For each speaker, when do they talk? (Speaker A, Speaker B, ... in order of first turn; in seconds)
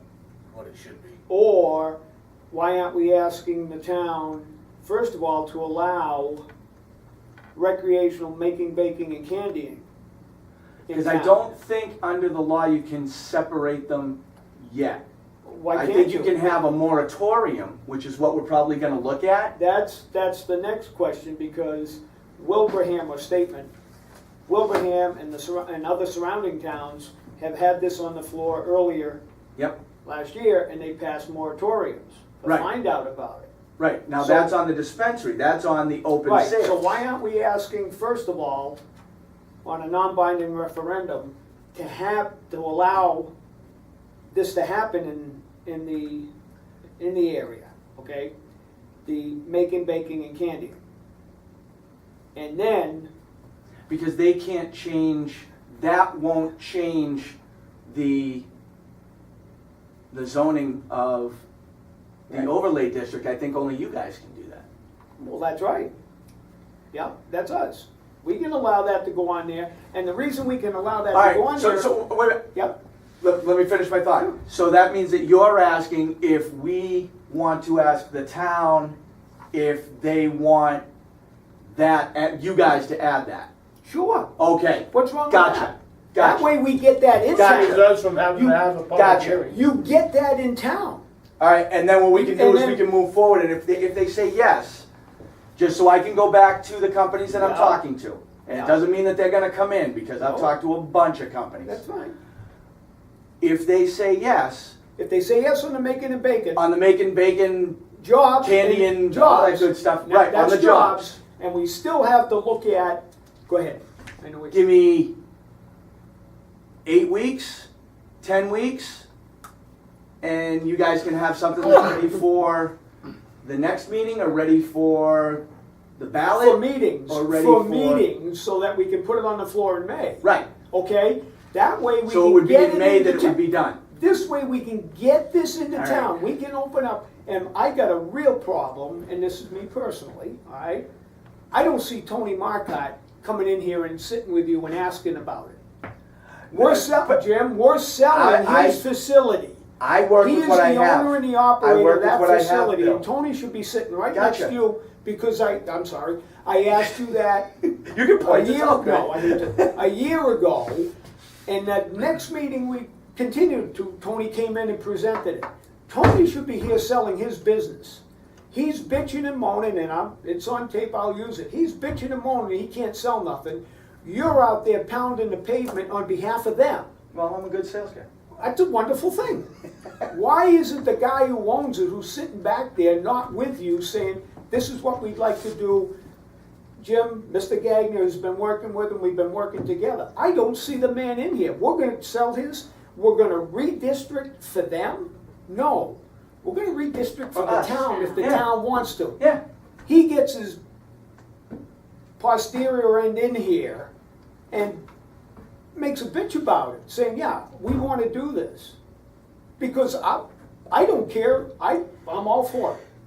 Speaker A: 0.5-1.2, 87.3-89.6
Speaker B: 1.3-2.0, 2.5-6.4, 7.5-9.8, 10.9-11.4, 15.4-16.3, 19.5-23.7, 24.5-29.2, 30.0-33.5, 34.2-34.5, 36.2-38.8, 39.6-43.3, 44.3-46.3, 47.0-48.3, 49.0-50.8, 52.3-53.1, 65.2-65.9, 66.9-71.9, 83.8-84.3, 84.9-91.0, 92.1-92.8, 97.3-97.8, 98.5-98.8, 100.2-100.5, 101.6-102.2, 105.0-106.6, 108.0-114.6, 126.3-140.8, 141.5-145.6, 146.5-149.6, 150.2-157.5, 158.2-160.9, 161.5-176.9, 178.4-179.5, 180.0-185.9, 186.8-199.2, 199.8-200.6, 202.2-203.9, 204.5-204.8, 205.7-208.8, 209.6-212.8
Speaker C: 10.9-15.0, 15.7-19.5, 33.8-37.0, 53.9-58.5, 60.1-61.4, 62.3-64.7, 71.1-72.4, 73.2-79.0, 79.5-80.8, 81.7-83.5, 84.4-86.5, 87.3-87.8, 88.9-89.3, 91.4-94.9, 95.5-101.8, 103.4-104.8, 106.5-107.8, 108.4-111.0, 114.5-115.1, 116.8-117.7, 118.2-119.0, 120.2-122.7, 123.4-125.4, 126.0-128.1, 130.2-130.5, 132.1-133.8, 135.8-136.1, 146.5-147.2, 148.1-148.8, 149.8-153.0, 154.1-154.5, 157.6-159.7, 177.1-178.0, 197.3-198.5